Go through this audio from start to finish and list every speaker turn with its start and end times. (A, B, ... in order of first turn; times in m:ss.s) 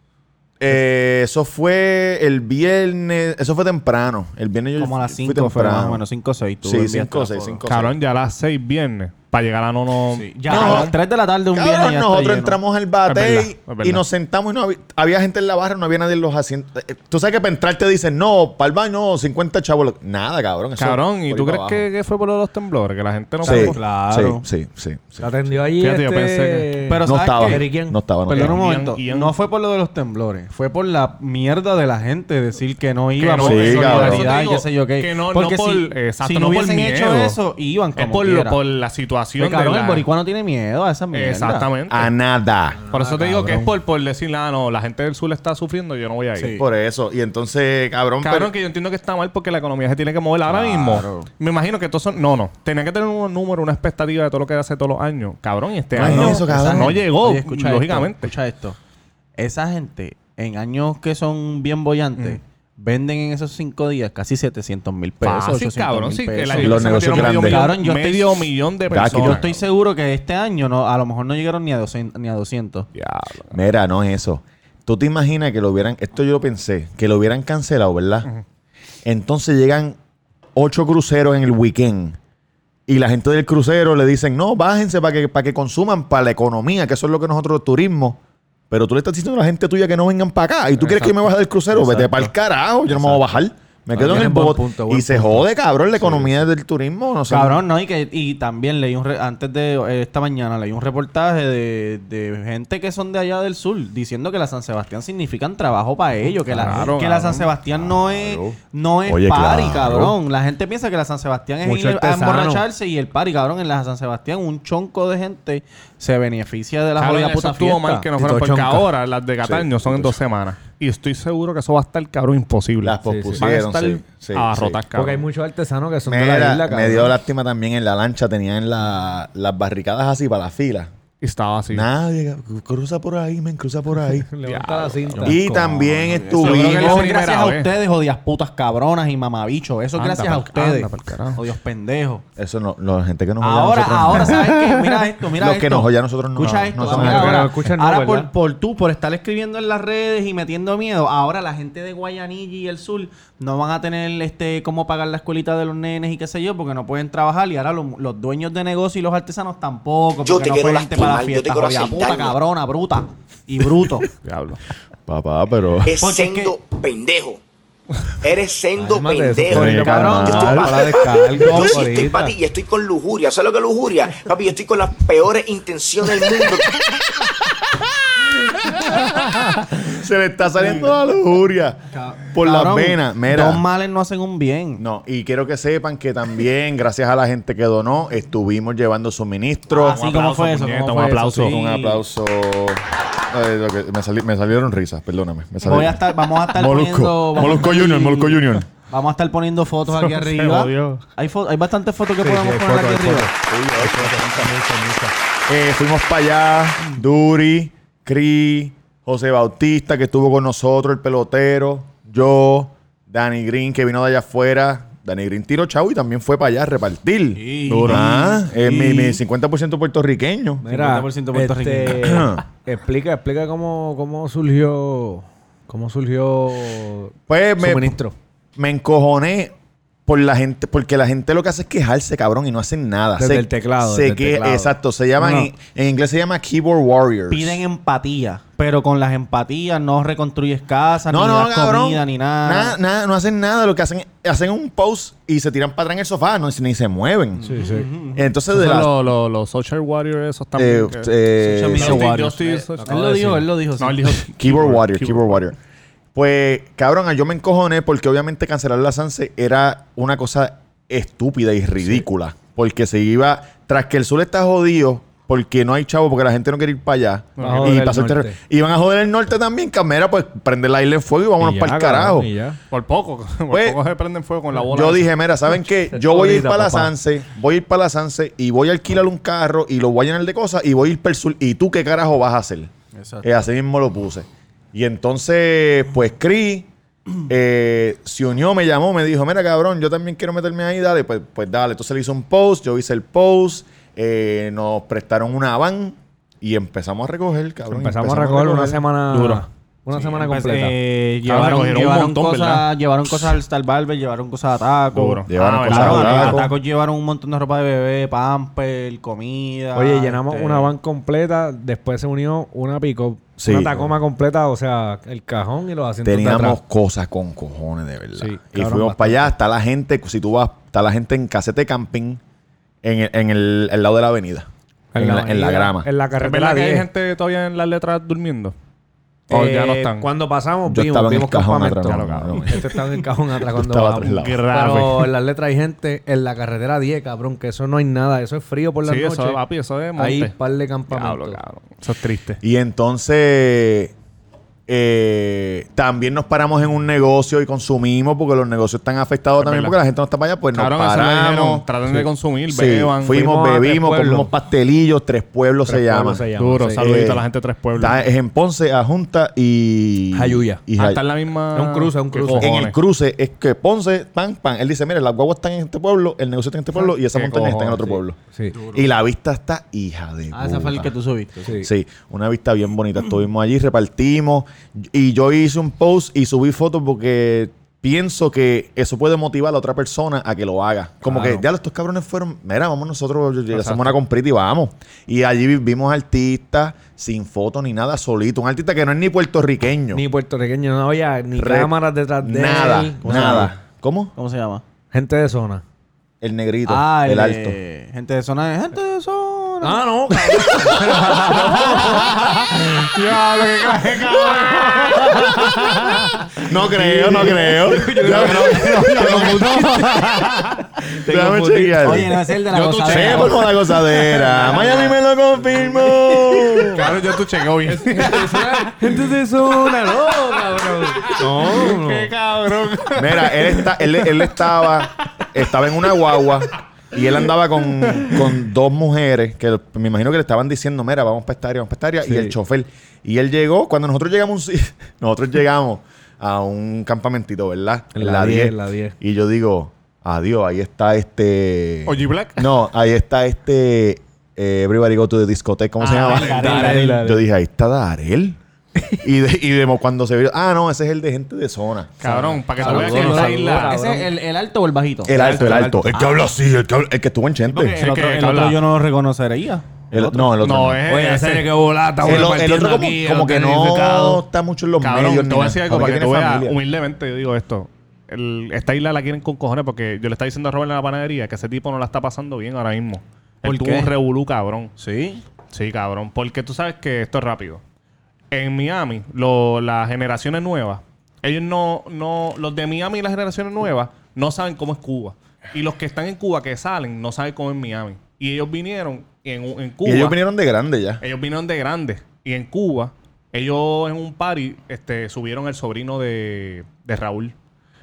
0:00.6-0:06.0 A
0:04.8-0:07.6 B
0:06.6-0:08.0 A
0:07.6-0:10.9 C
0:10.1-0:12.6 B
0:10.5-0:10.9 A
0:11.5-0:21.8 A
0:13.1-0:14.0 C
0:20.8-0:23.8 C
0:23.4-0:25.3 A
0:23.4-0:23.9 D
0:23.8-0:24.4 B
0:25.2-0:28.0 D
0:25.7-0:26.9 C
0:26.9-0:27.7 B
0:27.0-0:28.6 A
0:28.3-0:38.6 B
0:28.3-0:29.3 C
0:33.2-0:37.4 C
0:33.4-0:34.3 A
0:38.0-0:40.1 C
0:39.4-0:41.7 B
0:41.1-0:42.1 C
0:41.9-0:42.8 A
0:42.9-0:43.7 D
0:42.9-0:46.6 C
0:46.4-0:46.6 B
0:46.6-0:48.5 A
0:48.2-0:58.3 C
0:50.4-0:51.3 B
0:55.9-0:57.0 A
0:55.9-0:58.8 B
0:59.4-1:12.9 B
1:05.2-1:09.6 C
1:06.6-1:07.7 A
1:08.9-1:09.4 A
1:13.0-1:13.6 C
1:13.5-1:18.3 A
1:19.0-1:20.0 A
1:20.5-1:22.2 A
1:22.9-1:28.2 A
1:28.7-1:37.6 A
1:30.8-1:31.1 C
1:31.7-1:32.3 B
1:33.9-1:35.5 D
1:37.3-1:58.1 B
1:46.5-1:47.5 C
1:46.6-1:46.9 D
1:47.8-1:50.1 A
1:51.6-1:52.6 D
1:57.0-2:05.3 C
1:58.2-1:58.9 D
1:59.4-2:00.2 A
2:02.8-2:04.8 A
2:03.0-2:03.4 D
2:04.9-2:07.1 D
2:06.0-2:10.9 A
2:11.2-2:11.9 C
2:11.7-2:14.3 A
2:14.3-2:16.2 D
2:14.4-2:15.2 C
2:15.2-2:17.2 A
2:16.0-2:22.2 B
2:16.4-2:17.7 C
2:20.0-2:21.4 C
2:22.4-2:24.8 A
2:23.4-2:44.1 B
2:25.4-2:27.4 A
2:26.4-2:27.0 C
2:26.9-2:28.3 D
2:40.2-2:42.4 E
2:44.2-2:44.6 C
2:45.1-2:46.0 A
2:45.8-2:47.4 E
2:46.0-2:46.5 B
2:48.2-2:56.9 E
2:48.8-2:52.3 D
2:49.5-2:50.8 A
2:58.5-3:03.6 A
3:02.0-3:04.8 B
3:04.8-3:10.0 A
3:09.7-3:12.0 B
3:09.8-3:11.6 C
3:11.4-3:18.6 A
3:15.6-3:23.3 B
3:20.0-3:21.0 C
3:22.2-3:25.1 D
3:23.5-3:24.5 A
3:25.5-3:40.6 A
3:37.3-3:39.2 B
3:37.7-3:38.5 C
3:40.6-3:48.1 D
3:40.7-3:42.2 B
3:42.0-3:42.4 A
3:47.3-3:48.0 A
3:48.6-3:49.5 A
3:50.1-3:57.6 A
3:53.2-3:55.4 D
3:57.3-4:02.8 B
4:01.1-4:07.5 A
4:07.4-4:08.3 B
4:07.4-4:07.9 D
4:08.1-4:08.9 A
4:08.5-4:11.1 C
4:10.5-4:12.2 A
4:11.4-4:14.2 B
4:11.7-4:15.4 C
4:12.8-4:13.4 D
4:14.4-4:15.6 A
4:16.1-4:32.3 A
4:27.4-4:27.8 C
4:27.4-4:28.4 D
4:31.4-4:32.6 D
4:32.7-4:35.1 C
4:33.5-4:33.8 A
4:34.6-4:42.7 A
4:35.9-4:36.9 D
4:42.9-4:43.4 B
4:43.2-4:46.7 A
4:47.2-4:58.8 A
4:57.7-5:00.7 D
4:59.1-4:59.4 C
5:00.0-5:10.7 B
5:01.2-5:02.7 C
5:04.9-5:06.4 C
5:05.3-5:06.5 A
5:09.7-5:16.6 D
5:13.4-5:13.9 A
5:16.0-5:22.2 A
5:18.2-5:19.3 D
5:22.8-5:25.9 A
5:24.9-5:26.9 D
5:26.2-5:28.5 C
5:29.3-5:30.1 C
5:29.3-5:39.4 D
5:30.7-5:32.6 A
5:31.8-5:32.6 C
5:33.5-5:34.5 A
5:34.1-5:35.1 C
5:38.8-5:40.3 C
5:40.0-5:41.4 D
5:40.9-5:42.4 C
5:42.4-5:43.9 A
5:44.7-5:56.2 A
5:49.4-5:49.8 C
5:50.5-5:53.2 C
5:53.1-5:54.3 D
5:55.6-5:56.8 D
5:56.4-5:58.0 C
5:56.8-5:57.2 A
5:57.8-6:01.0 A
6:00.1-6:00.6 D
6:00.8-6:02.7 C
6:01.5-6:02.6 D
6:02.4-6:08.2 A
6:07.2-6:07.8 C
6:07.4-6:08.6 D
6:08.5-6:08.8 B
6:08.7-6:10.9 A
6:10.3-6:11.6 B
6:11.6-6:30.0 A
6:21.0-6:21.4 D
6:23.5-6:23.9 C
6:29.9-6:33.5 D
6:31.4-6:34.1 A
6:33.0-6:33.5 B
6:34.2-6:34.6 B
6:34.9-6:35.6 D
6:36.2-6:37.6 A
6:36.7-6:42.1 B
6:39.6-6:42.5 D
6:40.7-6:46.3 C
6:44.6-6:45.5 D
6:46.4-6:49.6 A
6:46.7-6:50.2 D
6:47.9-6:50.7 C
6:50.9-6:52.1 D
6:51.0-6:52.2 A
6:51.8-6:53.5 B
6:52.5-6:53.5 C
6:52.9-6:57.0 A
6:54.3-6:54.9 D
6:55.5-6:56.9 D
6:56.7-6:59.1 C
6:57.6-7:02.1 D
7:00.1-7:05.3 C
7:02.9-7:28.4 A
7:12.0-7:12.3 D
7:17.9-7:19.0 D
7:21.8-7:22.5 C
7:25.8-7:26.8 C
7:25.9-7:27.0 B
7:26.2-7:27.2 D
7:29.0-7:32.0 A
7:32.0-7:33.8 C
7:32.0-7:34.1 D
7:32.5-7:35.3 B
7:35.0-7:37.8 A
7:35.1-7:36.0 D
7:37.5-7:40.3 B
7:37.8-7:38.6 C
7:39.9-7:40.8 A
7:40.4-7:41.5 C
7:40.9-7:44.2 D
7:42.0-7:46.6 A
7:44.8-7:54.7 C
7:53.4-7:53.9 B
7:54.8-7:55.2 B
7:55.5-7:57.6 C
7:58.3-8:10.2 C
8:09.8-8:11.0 A
8:11.0-8:17.3 C